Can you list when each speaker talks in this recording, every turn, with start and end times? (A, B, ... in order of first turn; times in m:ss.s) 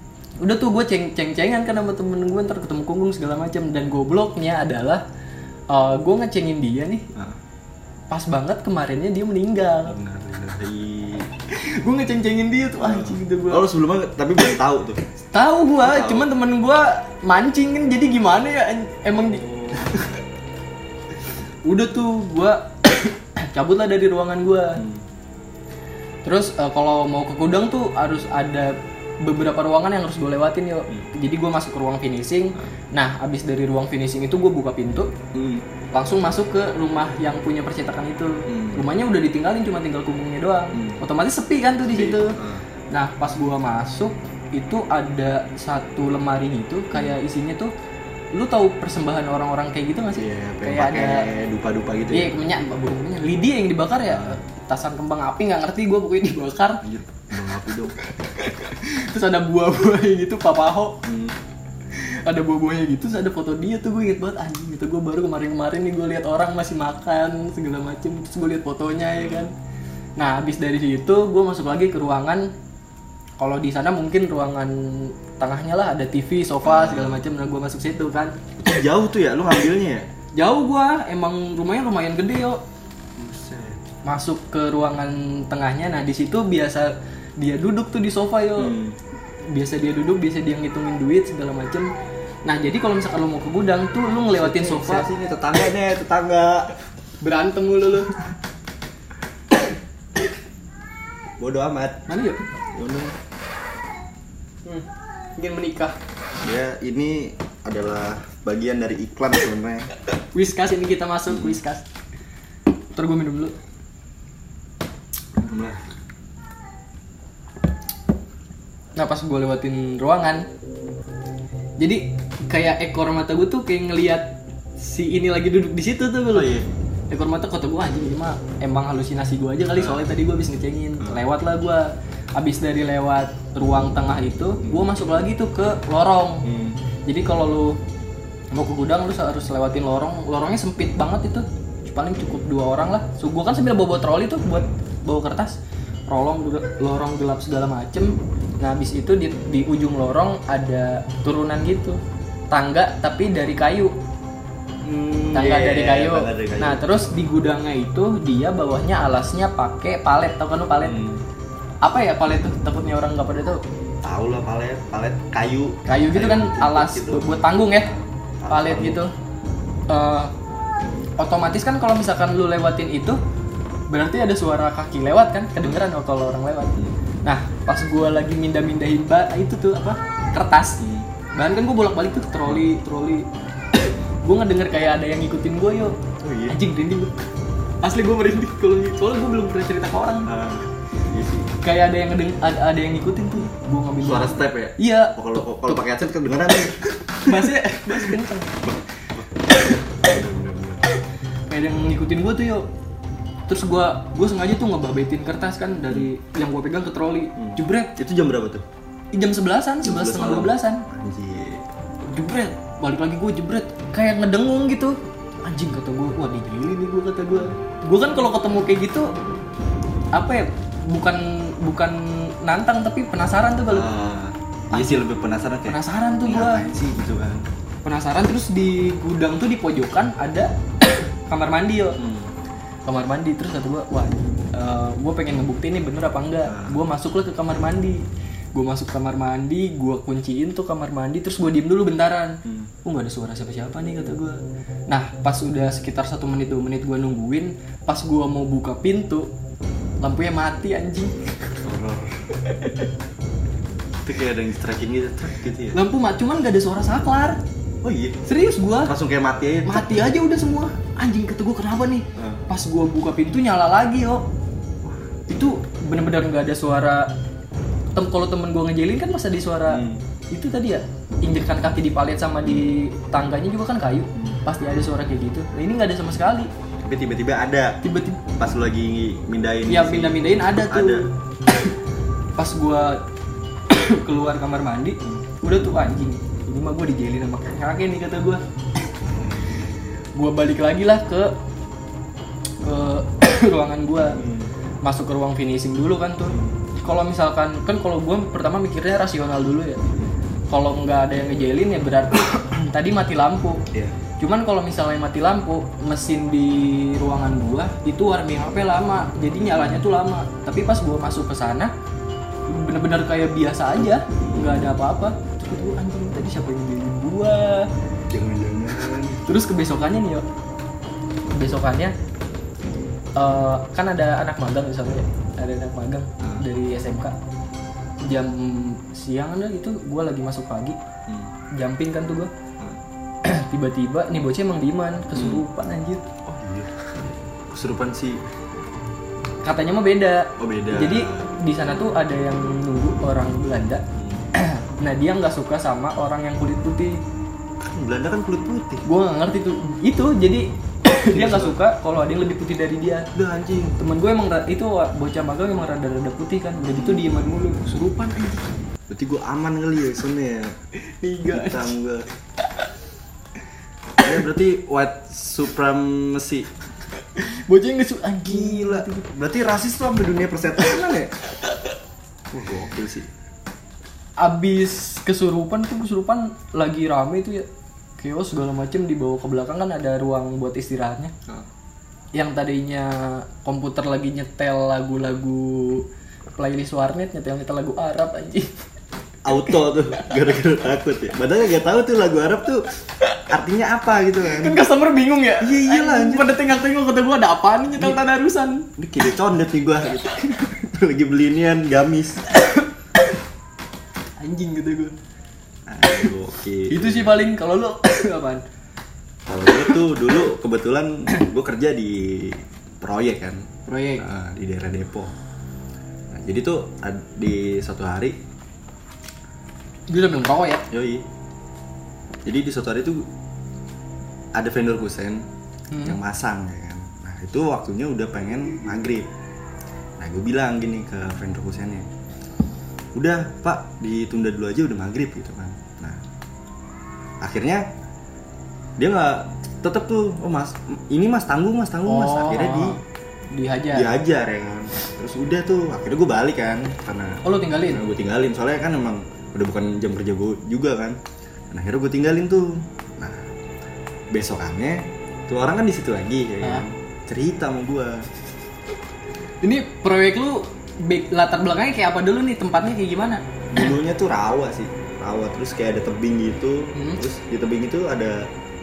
0:00.4-0:05.0 A
0:05.7-0:07.1 A
0:08.1-0:10.0 A
0:09.8-0:11.3 B
0:11.5-0:13.7 A
0:12.8-0:15.0 B
0:15.3-0:20.2 A
0:15.8-0:16.3 B
0:19.2-0:20.0 B
0:21.6-0:24.8 A
0:24.8-0:25.0 B
0:26.2-0:35.2 A
0:35.3-0:35.7 B
0:35.9-0:42.4 A
0:38.5-0:38.9 B
0:40.7-0:41.0 B
0:41.8-0:42.6 B
0:42.9-0:47.7 A
0:46.9-0:47.2 B
0:48.3-0:51.3 A
0:50.2-0:52.4 B
0:52.1-0:56.8 A
0:54.1-0:54.4 B
0:56.8-0:58.0 B
0:58.3-1:01.0 A
1:01.0-1:01.4 B
1:01.9-1:09.5 A
1:09.1-1:09.5 B
1:10.2-1:12.5 A
1:13.4-1:18.4 A
1:16.6-1:17.3 B
1:18.6-1:20.1 B
1:20.4-1:22.6 A
1:23.2-1:23.9 B
1:24.0-1:28.8 A
1:28.6-1:29.0 B
1:29.5-1:31.9 A
1:32.5-1:35.1 A
1:34.3-1:36.7 B
1:37.2-1:38.2 A
1:41.4-1:42.2 B
1:42.1-1:42.4 A
1:42.7-1:43.2 B
1:45.4-1:46.0 A
1:46.4-1:49.9 B
1:50.3-1:51.9 A
1:51.3-1:51.6 B
1:53.0-1:53.6 A
1:55.4-1:55.8 B
1:59.0-2:00.5 A
2:01.8-2:06.5 A
2:06.3-2:06.7 B
2:07.1-2:16.5 A
2:09.8-2:10.1 B
2:11.0-2:11.2 B
2:14.6-2:14.9 B
2:16.4-2:16.8 B
2:17.0-2:17.8 A
2:18.5-2:25.6 A
2:26.1-2:32.0 A
2:32.5-2:34.0 A
2:34.8-2:36.8 B
2:35.3-2:41.0 A
2:40.8-2:41.2 B
2:41.8-2:43.6 A
2:44.0-2:49.0 B
2:45.9-2:47.9 A
2:48.5-2:49.1 A
2:49.9-2:50.3 A
2:51.2-2:53.2 A
2:53.9-3:06.0 A
3:00.8-3:01.1 B
3:06.2-3:06.6 B
3:06.5-3:07.1 A
3:07.8-3:10.3 A
3:10.3-3:11.5 B
3:11.6-3:15.8 A
3:13.4-3:20.8 B
3:17.2-3:18.6 A
3:21.5-3:22.7 A
3:23.5-3:28.0 A
3:27.4-3:28.6 B
3:29.1-3:30.9 A
3:29.8-3:31.6 B
3:32.0-3:39.1 A
3:37.3-3:37.6 B
3:40.1-3:43.9 A
3:43.7-3:47.5 B
3:44.7-3:45.1 A
3:45.7-3:46.7 A
3:47.8-3:50.5 A
3:51.3-3:52.0 A
3:52.0-3:52.3 B
3:52.9-3:58.0 A
3:56.5-3:56.8 B
3:58.6-4:09.3 A
4:02.4-4:02.7 B
4:10.0-4:11.2 A
4:11.6-4:12.3 B
4:12.4-4:12.8 A
4:14.0-4:15.8 B
4:15.7-4:17.4 A
4:17.8-4:18.2 B
4:18.2-4:19.0 A
4:18.8-4:20.1 B
4:19.6-4:24.3 A
4:22.2-4:22.4 B
4:25.3-4:27.1 A
4:28.0-4:36.5 A
4:29.7-4:30.0 B
4:32.4-4:32.7 B
4:34.2-4:34.4 B
4:36.8-4:41.1 B
4:37.8-4:38.2 A
4:39.7-4:41.1 A
4:42.4-4:43.0 A
4:43.7-4:48.4 A
4:50.2-4:51.3 A
4:52.6-4:54.2 A
4:54.1-4:54.5 B
4:54.8-4:59.8 A
4:56.3-4:56.6 B
5:00.5-5:03.6 A
5:04.2-5:11.7 A
5:09.3-5:09.8 B
5:12.5-5:17.7 A
5:14.2-5:14.8 B
5:18.1-5:19.2 B
5:19.2-5:20.3 A
5:21.3-5:22.0 A
5:23.2-5:27.2 A
5:26.2-5:26.5 B
5:28.0-5:30.8 A
5:31.1-5:31.3 B
5:31.5-5:32.3 A
5:33.2-5:36.0 A
5:35.1-5:35.4 B
5:36.2-5:38.2 B
5:39.4-5:43.8 A
5:40.4-5:41.3 B
5:44.0-5:44.3 B
5:44.3-5:47.0 A
5:47.6-5:48.8 B
5:48.8-5:53.1 A
5:51.0-5:51.6 B
5:53.1-5:53.8 B
5:53.8-5:58.5 A
5:56.7-5:57.0 B
5:58.9-6:00.6 B
6:01.0-6:01.7 A
6:01.3-6:02.1 B
6:04.0-6:06.5 B
6:07.2-6:09.1 A
6:08.3-6:11.1 B
6:12.3-6:13.1 B
6:14.2-6:17.5 A
6:18.0-6:21.1 A
6:22.2-6:25.9 A
6:26.4-6:28.5 A
6:29.2-6:32.6 B
6:29.4-6:30.0 A
6:33.3-6:34.6 B
6:34.3-6:38.7 A
6:35.4-6:36.3 B
6:38.8-6:42.3 B
6:42.3-6:42.7 A
6:44.2-6:45.0 A
6:45.7-6:47.2 B
6:46.7-6:48.4 A
6:49.3-6:55.2 B
6:53.7-6:54.1 A
6:56.1-6:58.2 B
6:59.9-7:00.7 A
7:00.7-7:01.1 B
7:02.2-7:03.1 B
7:04.4-7:05.3 B
7:05.7-7:06.0 A
7:05.8-7:09.1 B
7:10.0-7:11.9 B
7:13.0-7:16.0 B
7:17.2-7:17.6 B
7:18.8-7:22.8 B
7:21.9-7:22.8 A
7:23.3-7:23.9 A
7:23.7-7:31.0 B
7:27.2-7:27.8 A
7:31.5-7:33.3 B
7:34.1-7:38.1 B
7:39.4-7:43.7 A
7:43.5-7:48.3 B
7:46.8-7:47.0 A